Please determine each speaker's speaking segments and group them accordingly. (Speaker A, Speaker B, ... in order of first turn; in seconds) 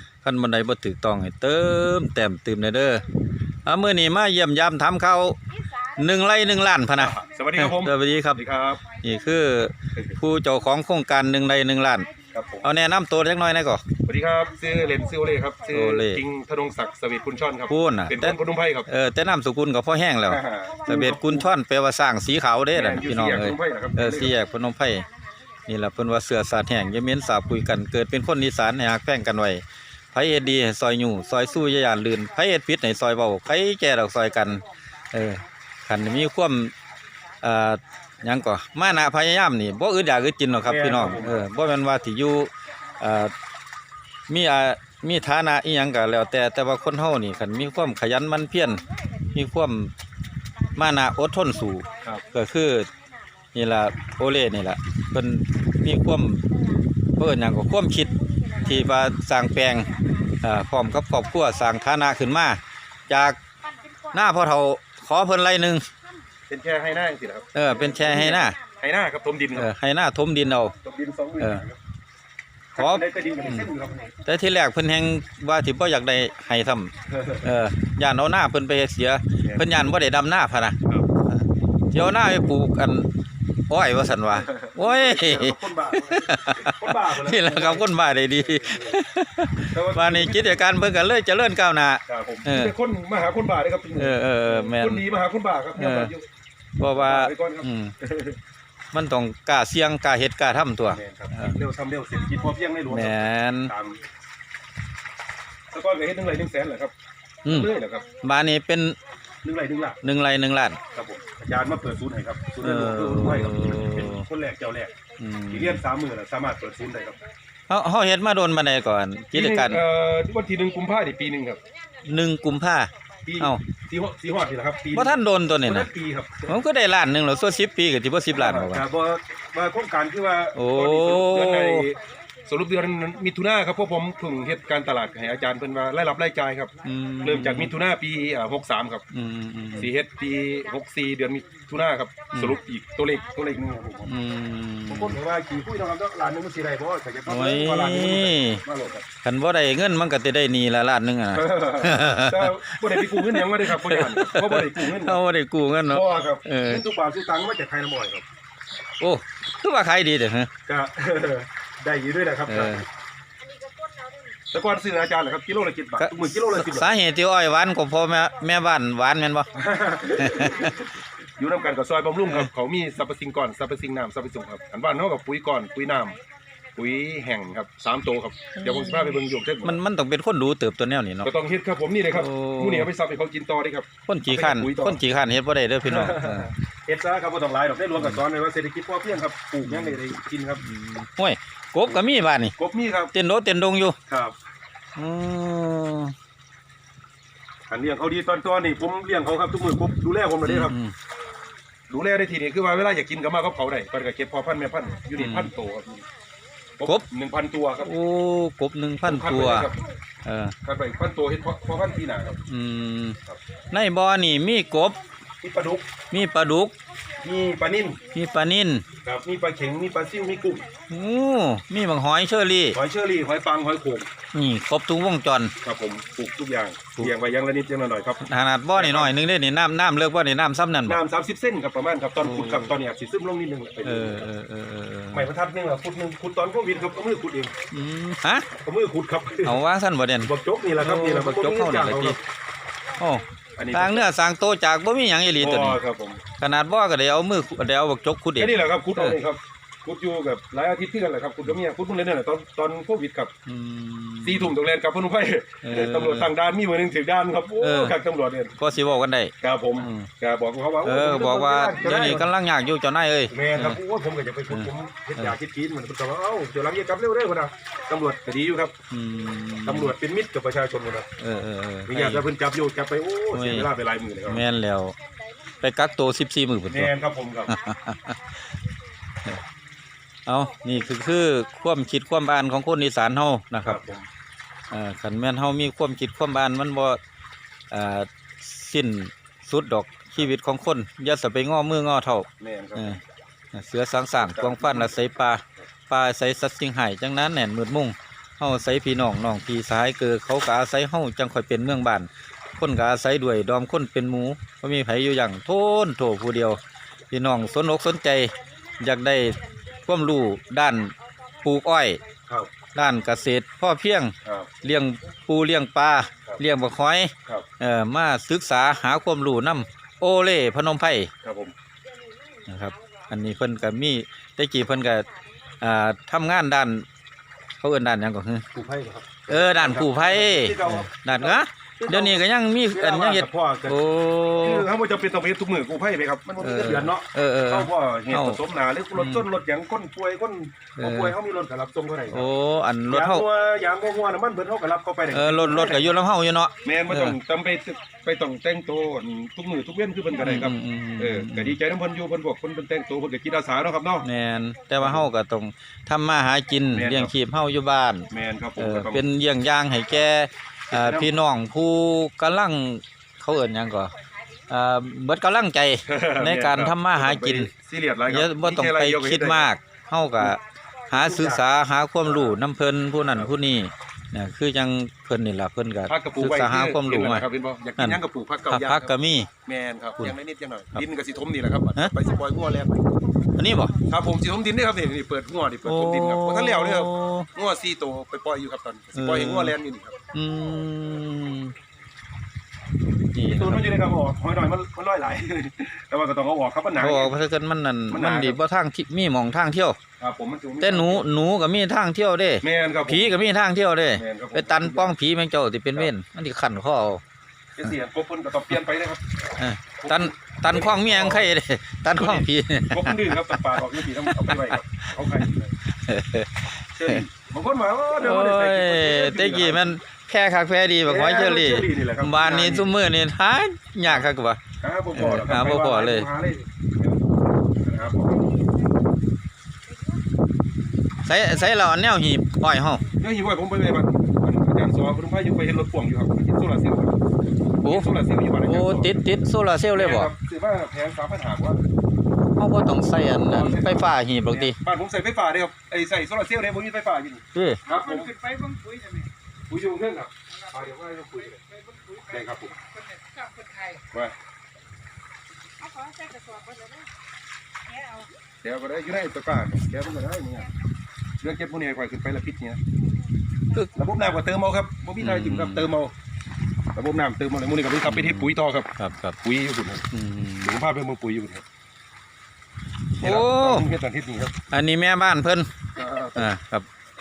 Speaker A: 0.2-3.0, 3.6-12.1, 12.6-13.8, 15.7-16.2, 17.7-25.1, 25.7-36.7, 37.4-43.3, 44.3-49.9, 50.8-52.9, 53.5-56.5, 57.2-63.4, 64.1-65.9, 67.5-68.6, 69.5-70.7, 72.8-73.7, 74.2-83.1, 83.7-92.7, 94.0-95.0, 95.8-96.1, 96.8-97.9, 98.9-101.6, 102.9-103.7, 107.4-109.0, 110.0-110.8, 112.6-114.3, 115.2-115.8, 117.7-119.8, 122.0-123.6, 124.9-125.9, 126.5-128.8, 130.6-131.9, 136.8-137.8, 139.1-139.9, 142.3-142.6, 144.1-145.2, 147.3-148.6, 149.2-156.8, 159.0-160.5, 162.5-162.9, 166.0-169.5, 170.1-170.8, 178.6-181.3, 182.1-182.9, 184.1-186.5, 189.7-190.0, 190.6-192.6, 193.1-194.0, 195.0-196.1, 200.4-200.9, 205.1-205.5, 207.8-209.7, 210.2-210.5, 212.5-213.2, 213.7-215.0, 216.1-216.8, 218.1-218.9, 220.9-222.8, 224.3-225.5, 228.2-231.0, 232.2-232.7, 233.8-235.3, 237.7-238.5, 239.4-242.2, 243.0-245.8, 246.4-249.2, 253.5-254.6, 255.6-256.3, 257.6-258.0, 258.6-260.1, 260.8-263.8, 264.5-265.3, 268.9-269.9, 271.2-272.3, 273.3-273.7, 274.3-274.9, 275.6-276.9, 277.5-278.2, 280.3-283.8, 284.7-287.0, 287.7-293.0, 293.5-306.6, 307.1-312.0, 312.7-321.1, 322.5-325.1, 325.6-326.9, 327.6-328.5, 329.3-334.7, 336.4-338.4, 338.9-339.2, 340.8-341.1, 342.1-343.3, 345.1-347.2, 350.1-351.6, 354.0-363.9, 364.5-367.5, 368.1-377.3, 377.8-379.3, 383.4-383.8, 385.6-387.3, 388.9-389.6, 390.1-391.5, 393.1-393.7, 396.8-399.8, 400.6-407.0, 409.4-414.6, 415.7-417.0, 418.0-424.4, 424.9-426.1, 431.0-432.9, 437.6-437.9, 438.4-440.1, 442.4-444.6, 447.3-447.6, 465.0-465.8, 467.9-469.2, 469.9-470.5, 473.0-473.7, 474.5-475.5, 476.1-476.7
Speaker B: 7.0-8.8, 12.3-12.7, 14.0-18.9, 20.3-21.5, 22.7-24.4, 40.6-41.5, 52.0-52.2, 66.5-69.8, 70.8-71.8, 72.7-74.2, 77.1-77.5, 79.4-79.7, 84.3-89.0, 89.7-90.6, 92.1-96.3, 96.9-98.4, 100.9-104.0, 105.7-106.9, 107.5-108.1, 109.4-110.0, 110.9-115.0, 115.5-117.2, 119.3-121.6, 123.2-126.6, 128.3-139.0, 139.8-144.2, 144.9-149.1, 151.3-155.2, 155.9-158.2, 160.7-162.8, 164.5-166.9, 169.5-176.2, 176.8-179.8, 181.2-185.0, 185.9-190.6, 192.6-193.1, 194.1-194.4, 197.7-200.8, 201.9-206.1, 206.8-207.9, 209.0-209.8, 210.6-212.4, 215.4-215.9, 217.1-218.0, 219.0-220.7, 222.7-224.1, 225.6-229.2, 230.9-234.3, 235.1-237.6, 238.5-239.6, 240.2-242.2, 243.6-244.1, 245.4-246.2, 248.4-253.3, 254.2-258.5, 259.4-262.3, 263.3-268.8, 269.6-271.1, 271.9-274.4, 276.7-277.6, 283.6-284.1, 292.4-293.0, 294.2-294.9, 314.2-314.5, 321.2-321.5, 328.5-333.8, 334.4-342.3, 342.9-346.0, 346.6-354.1, 354.8-355.1, 356.7-357.1, 358.1-359.1, 360.7-361.1, 365.9-369.5, 370.9-371.4, 372.1-372.4, 375.9-383.0, 383.8-390.0, 393.2-397.2, 397.9-398.4, 400.0-401.1, 402.4-403.1, 403.9-404.9, 407.6-411.3, 412.0-415.6, 416.8-419.8, 420.9-422.8, 423.9-424.1, 424.6-428.3, 433.0-437.0, 437.6-438.9, 439.8-441.6, 443.3-448.2, 449.5-451.4, 452.1-452.6, 453.9-454.1, 458.4-460.5, 461.2-462.6, 463.7-465.9, 466.8-468.7, 469.2-469.8, 470.4-471.4, 473.0-474.3, 475.8-476.3
Speaker C: 163.6-164.3, 447.6-449.1, 451.4-453.8, 455.6-456.9, 457.7-458.1